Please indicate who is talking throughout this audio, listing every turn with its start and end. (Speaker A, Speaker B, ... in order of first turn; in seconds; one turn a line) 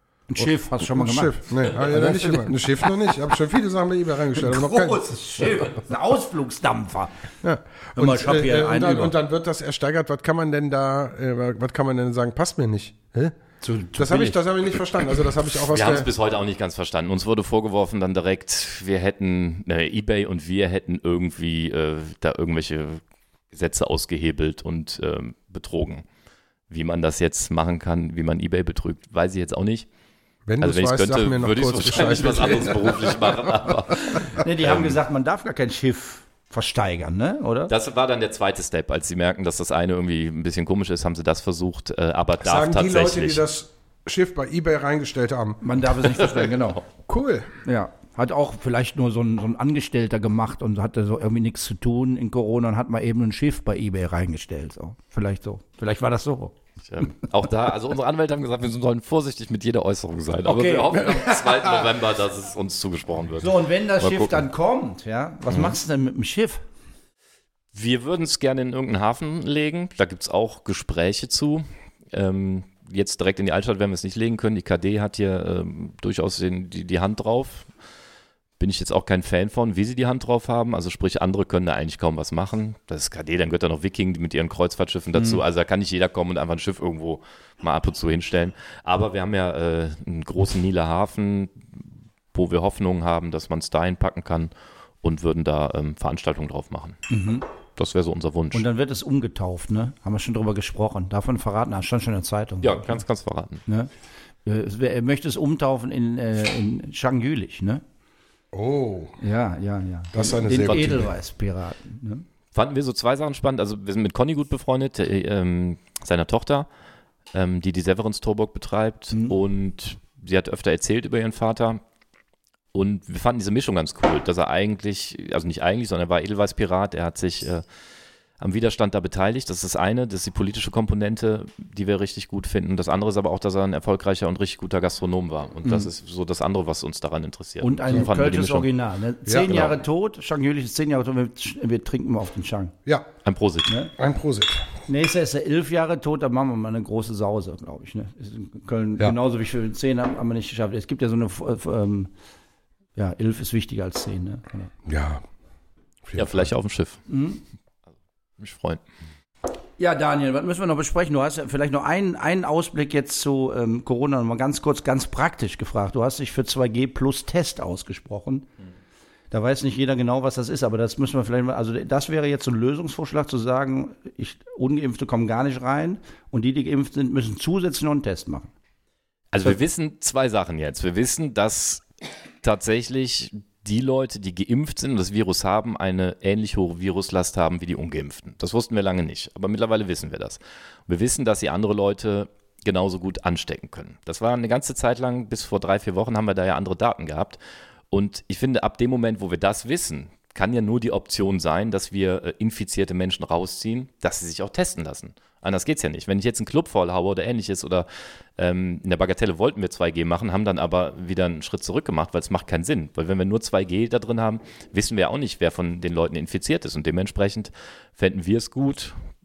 Speaker A: 0.3-2.9
Speaker B: 0.4-5.0
Speaker A: 4.3-7.2
Speaker B: 7.4-13.4
Speaker A: 8.0-9.1
Speaker A: 13.6-14.4
Speaker B: 13.9-16.1
Speaker C: 15.7-26.0
Speaker C: 26.7-29.9
Speaker B: 30.5-33.7
Speaker C: 30.6-35.0
Speaker A: 34.3-37.7
Speaker C: 37.7-43.4
Speaker B: 42.4-45.6
Speaker A: 45.6-46.8
Speaker C: 46.1-46.7
Speaker B: 47.1-47.6
Speaker A: 47.6-57.1
Speaker C: 56.9-64.4
Speaker A: 60.4-61.7
Speaker A: 63.4-66.6
Speaker C: 65.5-65.8
Speaker C: 67.7-77.7
Speaker C: 78.6-94.5
Speaker A: 85.1-85.4
Speaker C: 95.0-97.0
Speaker A: 97.1-97.5
Speaker C: 97.8-98.7
Speaker A: 98.5-103.0
Speaker C: 102.6-103.6
Speaker A: 104.4-107.8
Speaker B: 108.5-109.1
Speaker A: 109.2-112.2
Speaker B: 110.1-111.1
Speaker C: 110.7-111.0
Speaker C: 112.5-116.7
Speaker C: 117.3-121.8
Speaker C: 122.7-127.6
Speaker C: 128.4-138.7
Speaker A: 137.6-142.7
Speaker B: 139.2-139.6
Speaker C: 139.5-139.7
Speaker C: 143.2-143.7
Speaker A: 143.7-143.9
Speaker B: 143.9-144.7
Speaker A: 144.9-152.1
Speaker A: 152.9-154.7
Speaker B: 154.8-155.2
Speaker B: 156.0-156.5
Speaker C: 156.1-157.0
Speaker A: 157.1-157.4
Speaker C: 158.4-158.8
Speaker A: 159.8-168.5
Speaker A: 169.3-178.5
Speaker C: 179.3-181.8
Speaker C: 182.4-197.4
Speaker C: 197.9-219.0